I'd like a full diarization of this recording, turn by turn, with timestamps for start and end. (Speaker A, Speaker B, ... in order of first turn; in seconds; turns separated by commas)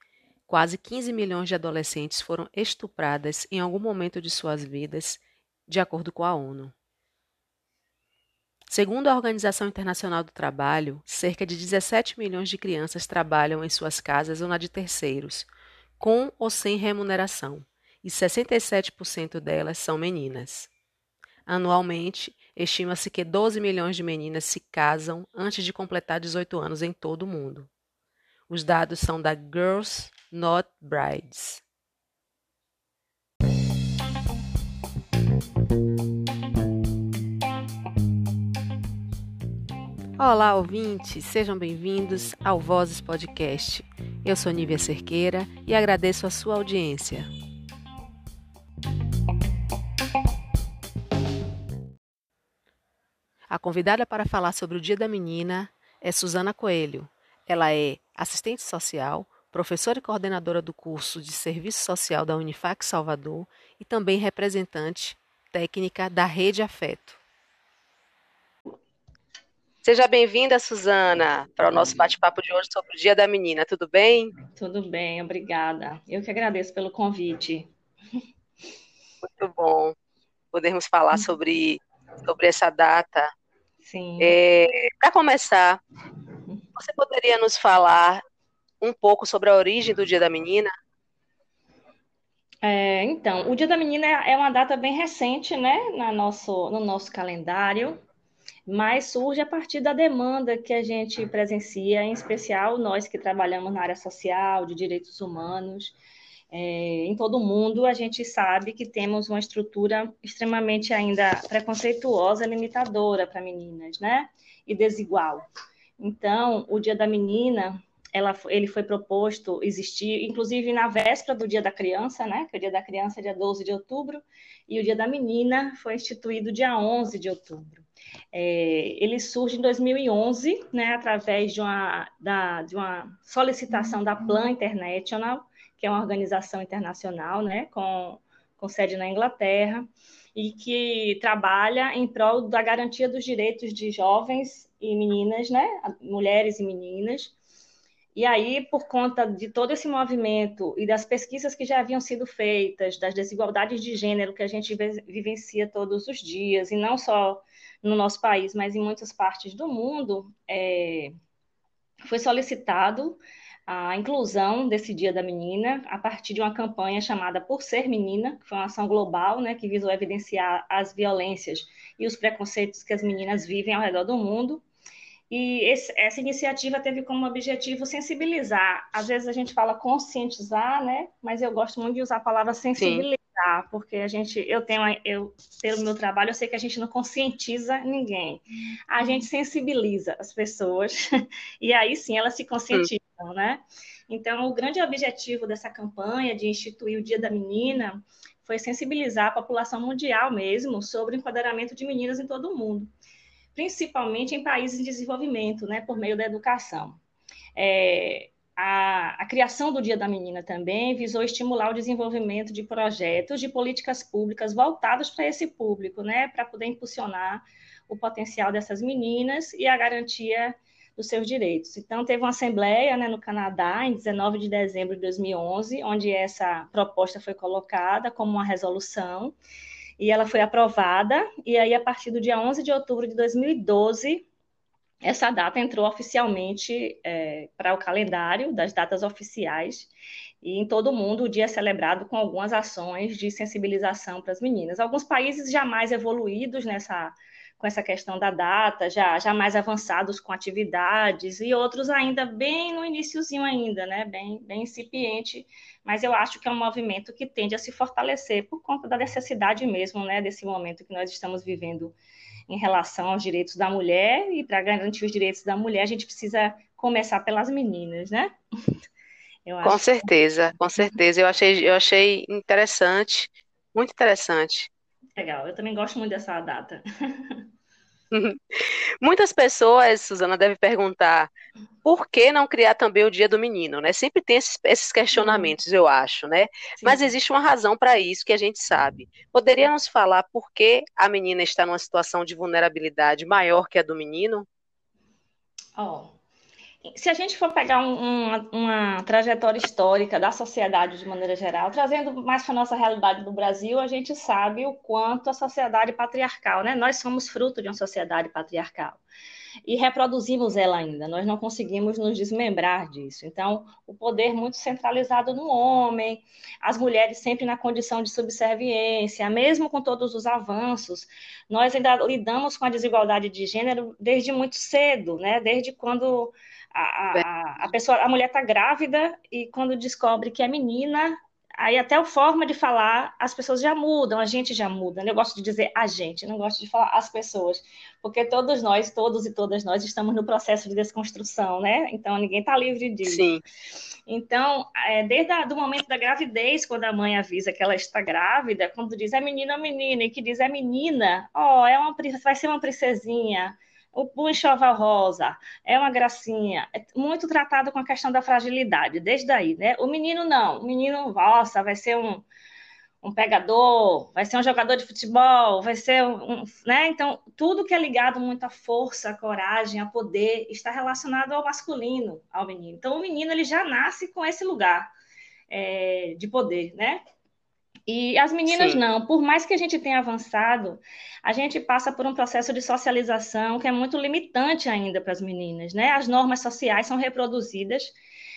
Speaker A: 0.5-6.7, Speaker A: 8.7-15.5, Speaker A: 16.0-20.7, Speaker A: 21.5-27.7, Speaker A: 28.5-31.6, Speaker A: 40.2-47.3, Speaker A: 53.5-67.2, Speaker A: 69.8-74.3, Speaker B: 74.6-77.7, Speaker A: 79.2-80.0, Speaker A: 80.5-83.3, Speaker B: 83.8-84.4, Speaker A: 84.2-85.8, Speaker A: 86.8-88.2, Speaker A: 88.8-90.7, Speaker B: 92.6-98.0, Speaker B: 98.7-106.0, Speaker B: 106.5-115.5, Speaker B: 116.0-147.3, Speaker B: 148.2-161.1, Speaker B: 162.1-174.6, Speaker B: 175.3-191.0, Speaker A: 182.8-183.1, Speaker B: 191.6-202.9, Speaker B: 203.6-207.0, Speaker B: 207.6-229.4, Speaker B: 230.0-234.3, Speaker B: 235.0-239.9, Speaker B: 240.4-262.0, Speaker B: 262.5-268.4, Speaker B: 269.5-269.9, Speaker A: 269.6-274.7, Speaker B: 275.2-277.4, Speaker A: 278.1-281.3, Speaker A: 281.8-294.5, Speaker B: 285.2-285.5, Speaker B: 286.8-287.1, Speaker B: 295.8-296.1, Speaker B: 296.9-309.0, Speaker B: 309.7-343.3, Speaker A: 343.0-343.4, Speaker B: 344.1-362.3, Speaker B: 363.0-374.9, Speaker B: 375.5-377.0, Speaker B: 377.9-387.9, Speaker A: 378.5-378.8